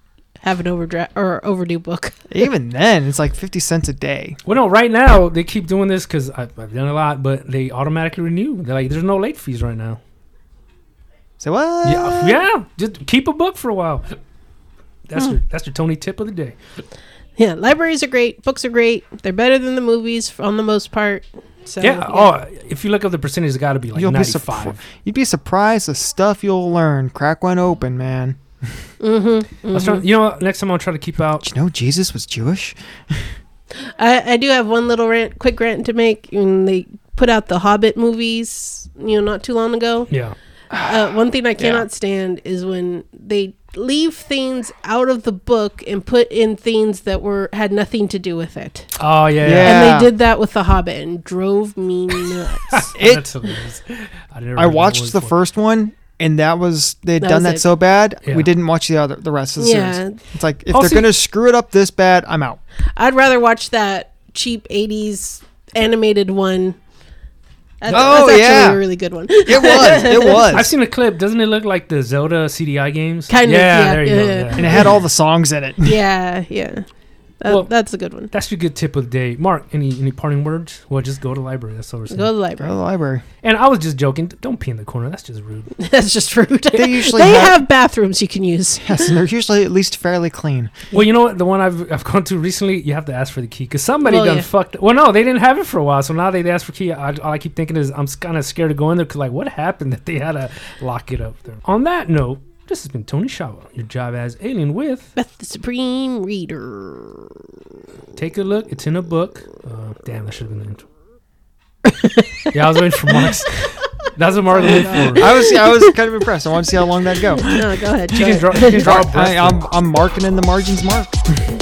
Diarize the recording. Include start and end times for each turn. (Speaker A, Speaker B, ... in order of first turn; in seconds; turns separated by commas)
Speaker A: 0.4-2.3, Speaker B: 2.3-4.4, Speaker C: 4.4-10.0, Speaker B: 11.4-12.4, Speaker C: 11.8-14.2, Speaker C: 15.1-16.6, Speaker A: 17.4-22.3, Speaker C: 21.8-24.8, Speaker B: 23.9-28.7, Speaker A: 29.0-30.1, Speaker C: 29.7-31.5, Speaker B: 31.4-33.3, Speaker A: 33.8-40.1, Speaker C: 40.1-40.3, Speaker B: 40.7-41.9, Speaker A: 40.8-48.9, Speaker C: 49.0-50.0, Speaker B: 49.4-50.1, Speaker A: 49.6-52.9, Speaker C: 52.7-55.3, Speaker B: 53.0-53.2, Speaker B: 54.5-62.6, Speaker A: 57.2-57.6, Speaker A: 59.6-60.2, Speaker C: 60.7-61.1, Speaker A: 63.0-66.8, Speaker A: 67.8-70.6, Speaker B: 67.9-68.8, Speaker B: 69.5-70.7, Speaker C: 70.5-75.0, Speaker A: 73.3-74.8, Speaker B: 74.6-76.0, Speaker A: 75.8-76.8, Speaker A: 77.4-78.3, Speaker C: 78.3-82.3, Speaker A: 82.1-82.7, Speaker B: 82.6-83.2, Speaker C: 83.4-85.7, Speaker A: 85.8-89.1, Speaker B: 86.7-87.6, Speaker B: 88.8-90.7, Speaker C: 90.9-105.1, Speaker A: 94.0-94.5, Speaker A: 105.2-107.4, Speaker C: 108.1-110.8, Speaker A: 111.8-112.5, Speaker C: 112.5-115.4, Speaker A: 114.5-116.0, Speaker B: 114.8-121.5, Speaker A: 117.3-119.0, Speaker C: 118.1-119.6